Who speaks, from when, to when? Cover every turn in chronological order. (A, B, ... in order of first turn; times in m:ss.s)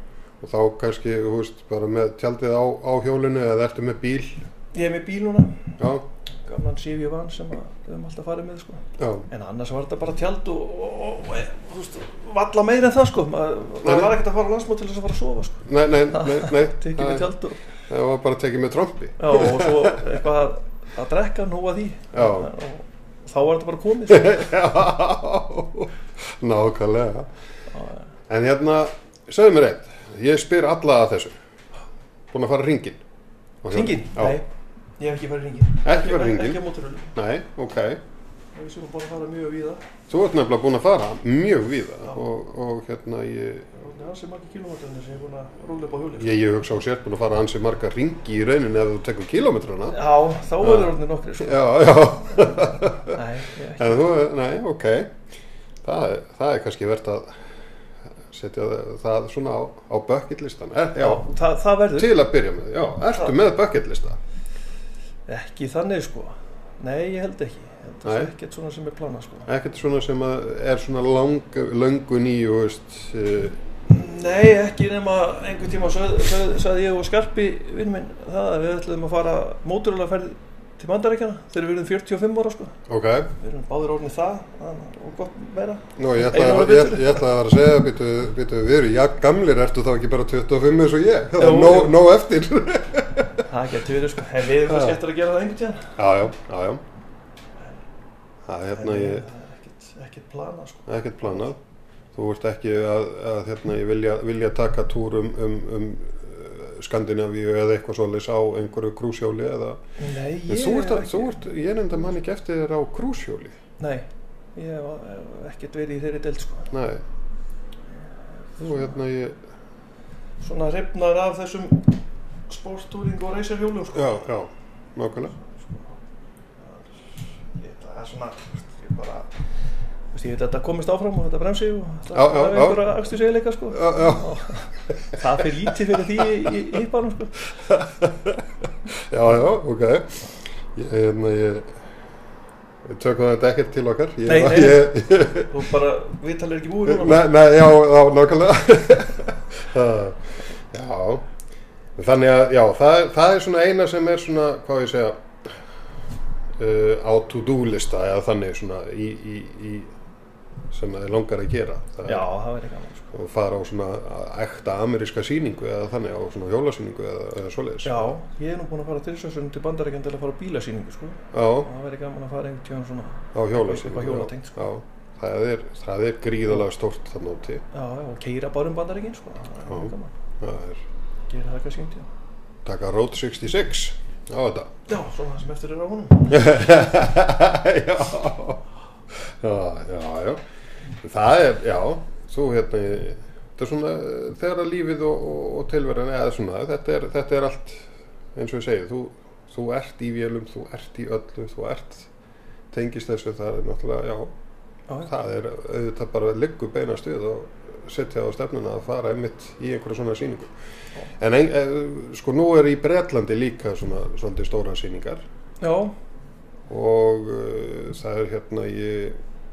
0:00.4-0:04.5 A
0:04.7-0:05.8 B
0:05.8-0:06.0 A
0:06.5-0:17.6 B
0:09.0-0:09.3 A
0:13.8-0:14.2 A
0:15.7-0:17.4 A
0:17.9-0:20.1 A
0:19.2-0:24.5 B
0:22.1-0:22.5 A
0:24.1-0:27.3 A
0:28.3-0:31.4 A
0:32.3-0:33.0 A
0:33.6-0:34.4 A
0:33.7-0:34.5 B
0:35.0-0:37.1 B
0:35.8-0:36.6 A
0:37.1-0:38.0 A
0:38.6-0:39.8 B
0:40.1-0:43.8 A
0:43.8-0:46.3 B
0:46.2-0:50.0 A
0:49.9-0:54.0 B
0:50.6-0:53.2 A
0:53.8-0:55.1 A
0:55.8-0:57.3 A
0:58.3-1:01.3 A
1:01.0-1:02.2 B
1:01.9-1:04.2 A
1:05.3-1:09.5 B
1:08.0-1:08.3 A
1:09.5-1:13.6 A
1:13.9-1:22.7 B
1:22.9-1:23.3 A
1:23.4-1:27.4 B
1:26.0-1:33.4 A
1:31.4-1:32.0 B
1:33.4-1:35.9 B
1:34.7-1:35.0 A
1:36.0-1:36.8 A
1:38.5-1:39.3 A
1:38.7-1:41.5 B
1:40.9-1:41.6 A
1:42.2-1:49.8 A
1:50.0-1:51.4 B
1:50.5-1:53.6 A
1:53.8-1:56.7 B
1:56.7-1:57.0 A
1:58.6-1:59.0 B
1:58.6-1:59.4 A
2:00.4-2:01.9 B
2:02.5-2:04.2 B
2:03.9-2:05.4 A
2:05.4-2:05.9 B
2:06.6-2:09.3 B
2:10.1-2:17.4 B
2:12.1-2:12.9 A
2:13.7-2:14.4 A
2:17.7-2:18.4 A
2:19.1-2:20.2 A
2:20.8-2:21.7 A
2:22.8-2:25.5 A
2:24.2-2:27.3 B
2:26.9-2:31.3 A
2:32.0-2:35.5 A
2:36.6-2:39.9 A
2:40.7-2:42.3 A
2:42.0-2:43.1 B
2:43.1-2:48.1 A
2:47.8-2:54.6 B
2:51.3-2:51.7 A
2:53.3-2:57.6 A
2:57.7-3:00.1 B
2:59.7-3:00.8 A
3:01.3-3:02.1 B
3:02.6-3:04.7 A
3:04.9-3:06.6 B
3:06.3-3:08.6 A
3:09.4-3:10.4 A
3:11.0-3:22.1 A
3:22.7-3:24.3 A
3:25.0-3:30.5 A
3:31.2-3:35.2 A
3:35.6-3:35.9 B
3:36.7-3:39.2 A